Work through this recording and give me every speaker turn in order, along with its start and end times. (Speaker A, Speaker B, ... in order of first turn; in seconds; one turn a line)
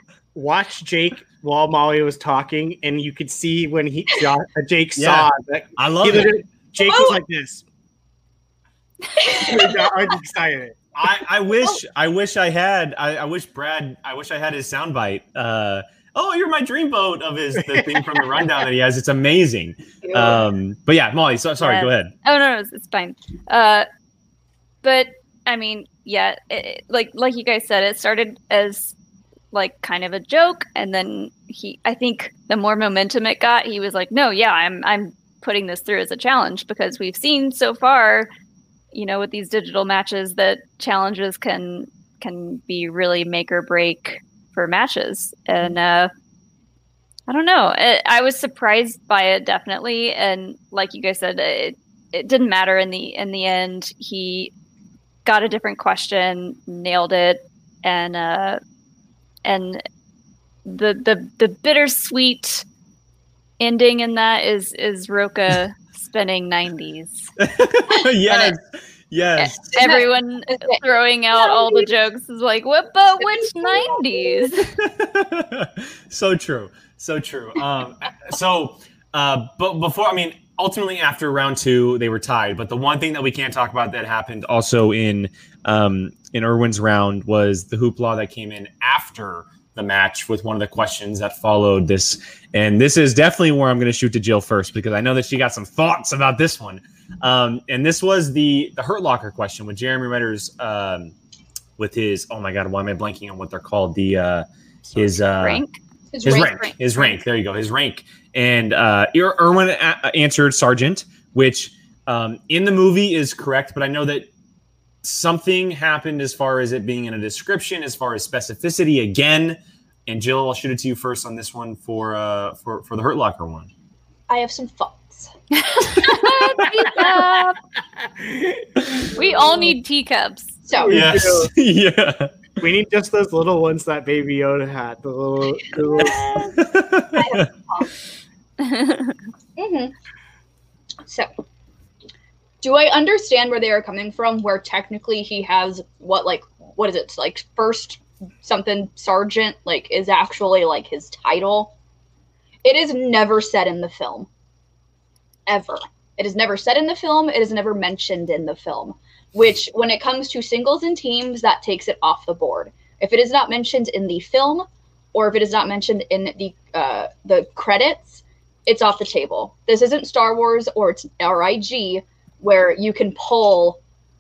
Speaker A: 0.3-7.6
Speaker B: 5.0-6.4
Speaker C: 6.8-7.2
Speaker C: 9.2-10.1
Speaker A: 9.2-11.2
Speaker B: 11.0-22.1
Speaker A: 17.6-18.0
Speaker C: 20.0-20.5
Speaker D: 21.6-23.9
Speaker D: 24.8-28.9
Speaker D: 29.5-38.3
Speaker D: 38.9-46.1
Speaker D: 47.3-54.5
Speaker D: 55.3-58.6
Speaker D: 59.5-59.8
Speaker D: 60.7-62.6
Speaker D: 63.6-67.3
Speaker B: 67.4-69.6
Speaker D: 69.4-74.7
Speaker C: 69.7-71.9
Speaker C: 73.2-74.5
Speaker B: 74.7-101.1
Speaker B: 101.8-105.6
Speaker D: 105.2-105.8
Speaker C: 106.1-106.7
Speaker B: 106.2-114.3
Speaker B: 115.0-123.7
Speaker C: 124.3-125.3
Speaker D: 125.8-127.6
Speaker C: 126.0-127.5
Speaker B: 126.0-126.6
Speaker A: 128.2-128.6
Speaker D: 129.2-130.6
Speaker C: 129.2-129.8
Speaker C: 130.7-131.2
Speaker A: 130.8-131.5
Speaker B: 130.9-132.3
Speaker A: 132.6-136.4
Speaker C: 135.9-137.9
Speaker B: 136.0-137.4
Speaker D: 138.6-139.2
Speaker C: 139.6-139.9
Speaker C: 141.1-141.3
Speaker C: 142.6-151.7
Speaker C: 152.6-154.3
Speaker C: 155.5-173.8